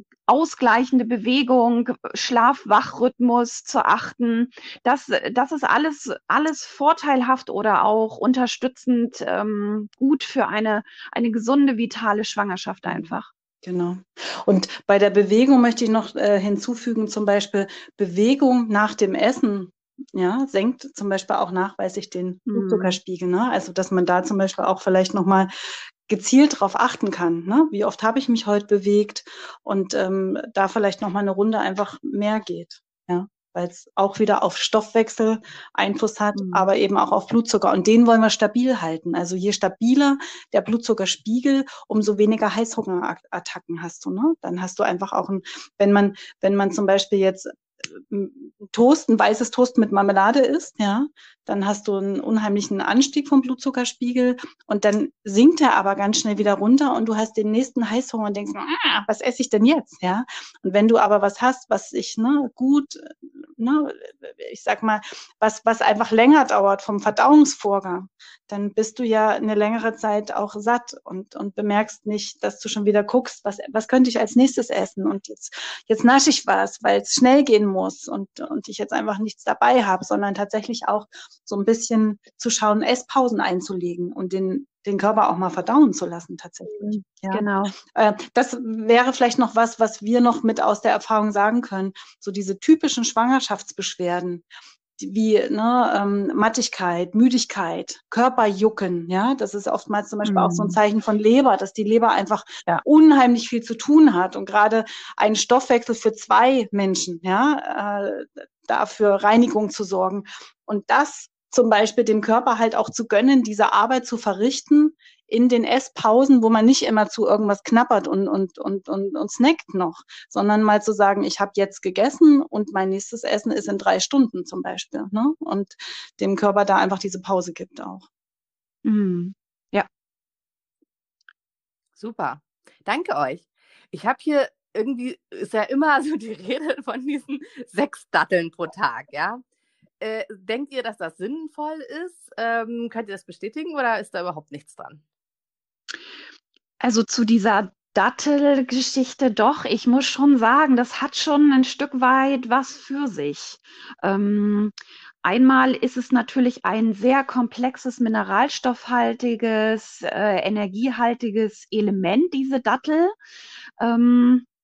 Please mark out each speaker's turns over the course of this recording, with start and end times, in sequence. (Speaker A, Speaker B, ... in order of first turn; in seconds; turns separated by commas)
Speaker A: 0.3-13.3, Speaker B: 12.9-25.5, Speaker A: 22.5-23.0, Speaker B: 26.1-94.4, Speaker A: 36.4-36.7, Speaker A: 86.7-87.8, Speaker B: 95.0-128.0, Speaker A: 100.2-100.8, Speaker A: 128.8-129.9, Speaker C: 132.0-139.4, Speaker C: 140.0-145.0, Speaker A: 146.8-163.1, Speaker A: 163.8-164.5